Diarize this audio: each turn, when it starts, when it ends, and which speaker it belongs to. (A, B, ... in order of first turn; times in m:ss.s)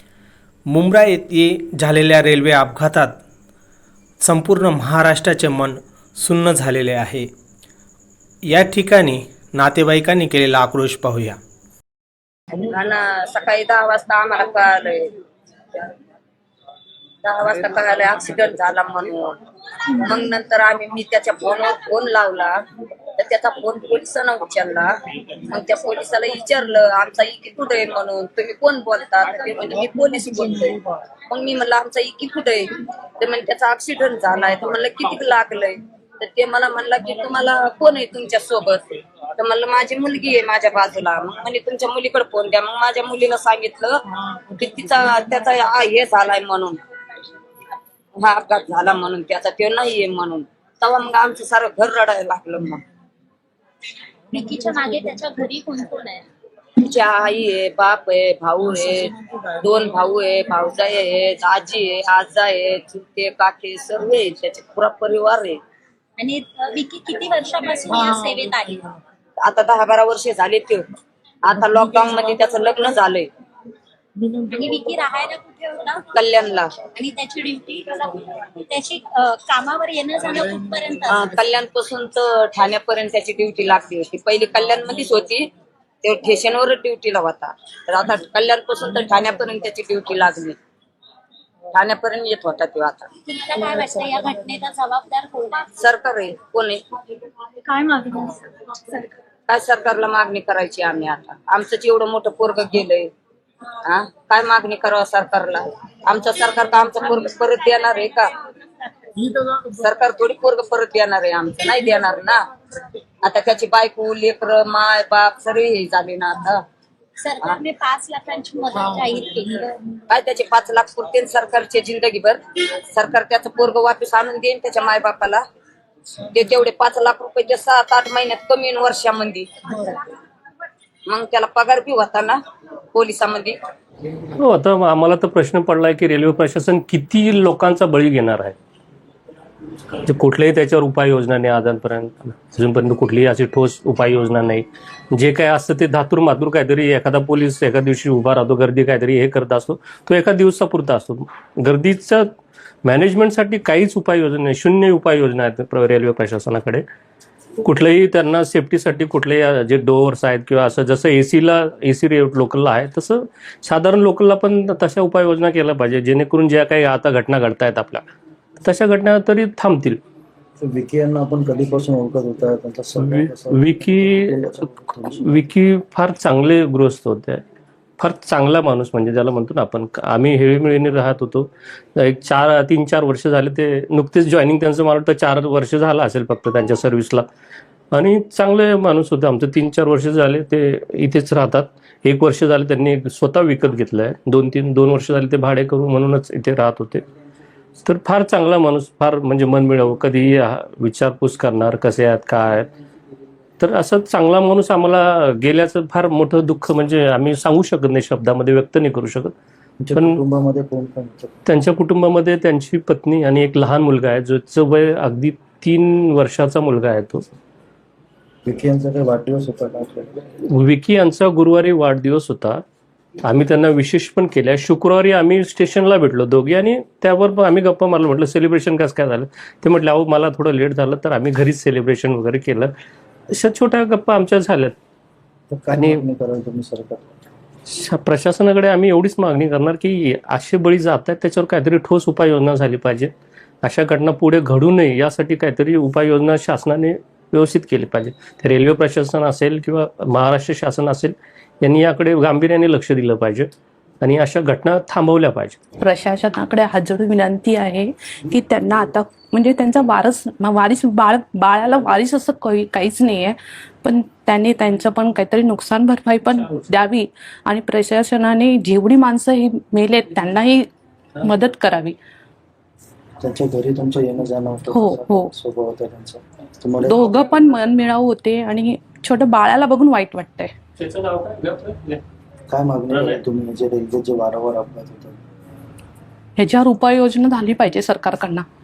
0:00.7-0:03.2 A
0:04.2-0:07.3 A
0:08.4-0:11.4 A
0:12.6-0:15.1 B
0:17.2-0:19.4 B
0:20.0-0:22.6 B
0:23.2-0:24.9 B
0:25.4-0:44.0 B
0:44.5-0:46.8 B
0:48.2-0:52.8 B
0:54.3-0:56.2 C
0:56.8-1:05.6 B
1:06.2-1:08.9 C
1:09.4-1:10.9 B
1:11.4-1:13.3 B
1:14.5-1:16.0 C
1:16.1-1:16.8 B
1:16.9-1:21.4 C
1:21.1-1:25.5 B
1:26.0-1:30.6 B
1:31.7-1:33.1 B
1:33.3-1:35.7 C
1:35.8-1:36.8 B
1:37.7-1:39.1 C
1:39.5-1:43.1 B
1:43.8-1:48.3 B
1:49.7-1:52.4 B
1:53.2-1:56.6 B
1:57.2-1:59.7 C
2:00.1-2:05.4 B
2:06.3-2:09.8 B
2:11.1-2:12.4 B
2:12.9-2:13.6 B
2:14.4-2:18.6 D
2:20.0-2:32.3 D
2:32.8-2:36.8 D
2:37.6-2:48.0 D
2:48.6-2:50.0 D
2:50.6-2:55.4 E
2:53.0-2:57.4 D
2:58.0-3:07.2 D
3:07.9-3:17.0 D
3:17.8-3:22.7 D
3:23.6-3:29.3 D
3:29.8-3:31.3 E
3:29.9-3:30.2 D
3:31.4-3:37.2 D
3:38.4-3:40.2 E
3:40.5-3:42.6 D
3:43.2-3:52.7 D
3:53.3-3:54.7 D
3:55.5-3:57.0 E
3:55.8-3:56.0 D
3:57.7-4:03.1 D
4:03.6-4:13.5 D
4:14.0-4:15.6 D
4:15.8-4:30.7 F
4:31.2-4:32.0 F
4:33.2-4:37.1 E
4:34.7-4:35.3 F
4:36.8-4:40.5 F
4:40.8-4:42.0 D
4:42.5-4:45.2 E
4:42.9-4:43.2 D
4:46.4-4:48.4 F